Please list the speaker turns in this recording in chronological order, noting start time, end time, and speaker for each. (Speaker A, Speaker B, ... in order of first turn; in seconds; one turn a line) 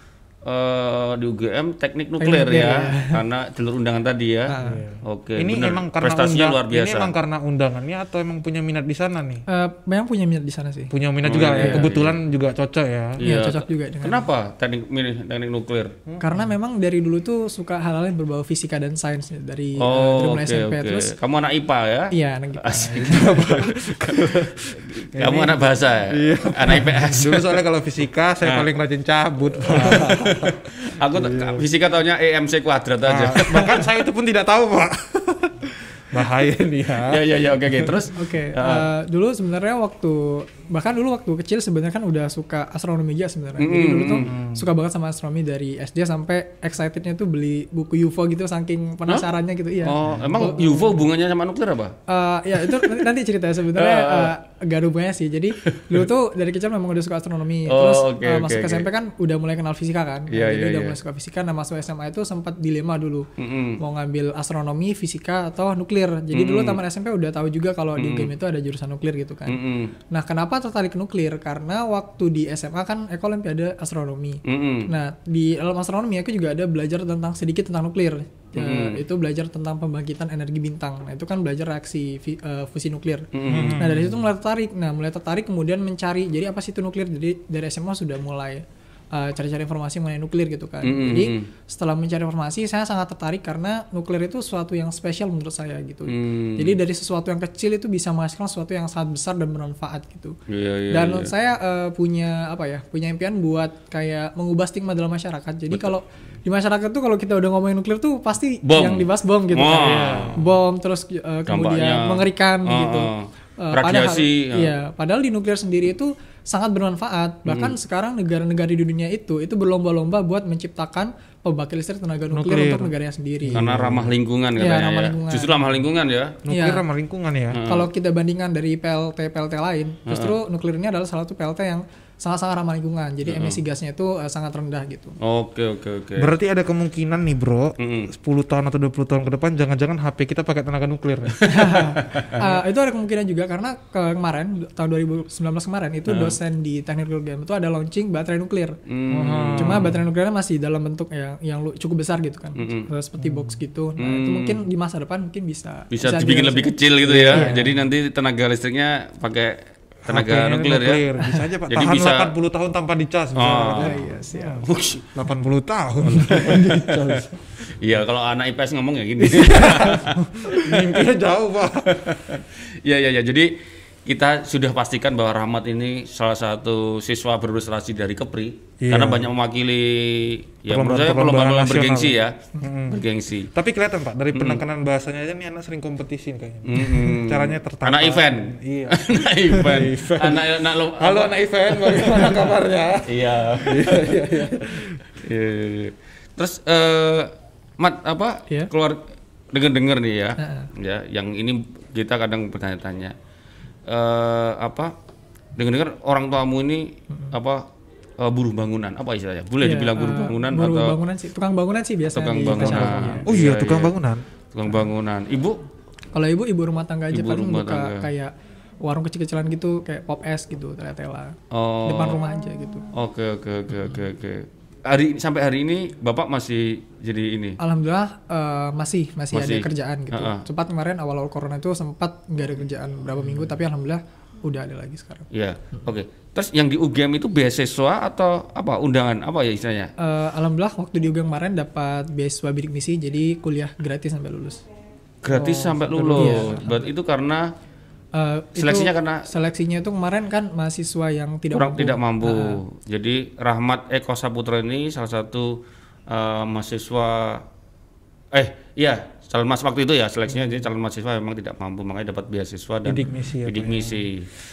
Speaker A: 0.4-7.1
Speaker B: 2.2-3.2
Speaker B: 4.5-4.8
Speaker C: 4.6-9.4
Speaker B: 9.5-10.9
Speaker C: 10.9-13.2
Speaker A: 11.2-12.1
Speaker B: 11.5-11.8
Speaker A: 13.2-15.9
Speaker B: 13.2-14.3
Speaker C: 16.1-16.5
Speaker B: 16.2-21.1
Speaker A: 19.8-27.5
Speaker B: 22.1-23.4
Speaker C: 22.8-30.6
Speaker A: 29.6-33.9
Speaker C: 31.1-31.6
Speaker C: 33.0-37.9
Speaker A: 37.0-38.9
Speaker B: 38.1-51.0
Speaker A: 43.6-44.3
Speaker C: 44.2-44.6
Speaker A: 49.8-51.9
Speaker C: 50.0-50.3
Speaker B: 52.1-100.3
Speaker A: 52.6-53.0
Speaker A: 53.7-54.3
Speaker A: 55.6-56.0
Speaker A: 57.6-58.9
Speaker A: 60.3-61.0
Speaker A: 63.4-63.8
Speaker A: 66.3-66.8
Speaker A: 68.0-68.3
Speaker A: 69.5-69.9
Speaker A: 74.4-74.9
Speaker A: 78.5-79.0
Speaker A: 83.3-83.8
Speaker C: 83.5-84.2
Speaker A: 90.8-91.5
Speaker A: 96.1-96.8
Speaker A: 100.5-101.3
Speaker B: 100.9-123.6
Speaker A: 108.6-110.4
Speaker C: 109.7-110.4
Speaker A: 111.5-114.7
Speaker A: 117.5-117.7
Speaker C: 122.3-122.9
Speaker C: 123.5-124.1
Speaker A: 123.5-126.4
Speaker B: 124.6-125.7
Speaker C: 126.4-127.6
Speaker B: 126.5-126.8
Speaker A: 127.5-127.9
Speaker B: 127.6-135.2
Speaker A: 130.1-130.3
Speaker A: 133.2-133.6
Speaker A: 135.2-136.3
Speaker C: 136.2-141.4
Speaker A: 137.8-138.1
Speaker A: 141.3-142.3
Speaker B: 141.4-148.7
Speaker A: 146.1-146.3
Speaker A: 148.9-149.9
Speaker C: 149.1-150.0
Speaker B: 149.6-157.6
Speaker A: 152.6-152.9
Speaker C: 153.2-153.6
Speaker A: 154.0-154.6
Speaker A: 155.9-161.0
Speaker C: 157.1-157.8
Speaker C: 160.1-167.4
Speaker A: 161.7-162.3
Speaker A: 163.3-163.9
Speaker B: 163.8-164.7
Speaker A: 164.6-165.1
Speaker B: 166.2-167.1
Speaker A: 167.7-171.0
Speaker C: 169.2-172.1
Speaker B: 169.8-170.2
Speaker A: 171.8-183.5
Speaker C: 178.8-179.3
Speaker C: 180.7-195.0
Speaker A: 184.3-184.6
Speaker A: 186.7-192.5
Speaker A: 193.1-194.2
Speaker A: 195.2-203.1
Speaker B: 200.4-200.7
Speaker A: 203.9-204.9
Speaker A: 205.6-207.6
Speaker A: 208.2-210.9
Speaker B: 209.6-213.3
Speaker A: 212.1-213.9
Speaker C: 212.6-214.2
Speaker A: 214.5-215.6
Speaker B: 216.1-218.3
Speaker A: 217.1-218.0
Speaker B: 218.8-222.9
Speaker A: 221.5-222.2
Speaker A: 222.9-227.6
Speaker B: 227.6-235.3
Speaker A: 229.3-230.4
Speaker A: 235.3-239.9
Speaker B: 240.0-244.6
Speaker A: 245.2-247.5
Speaker B: 245.3-246.9
Speaker C: 246.0-246.4
Speaker B: 248.1-252.6
Speaker A: 248.6-249.3
Speaker A: 251.5-257.4
Speaker A: 258.3-264.3
Speaker C: 262.8-264.1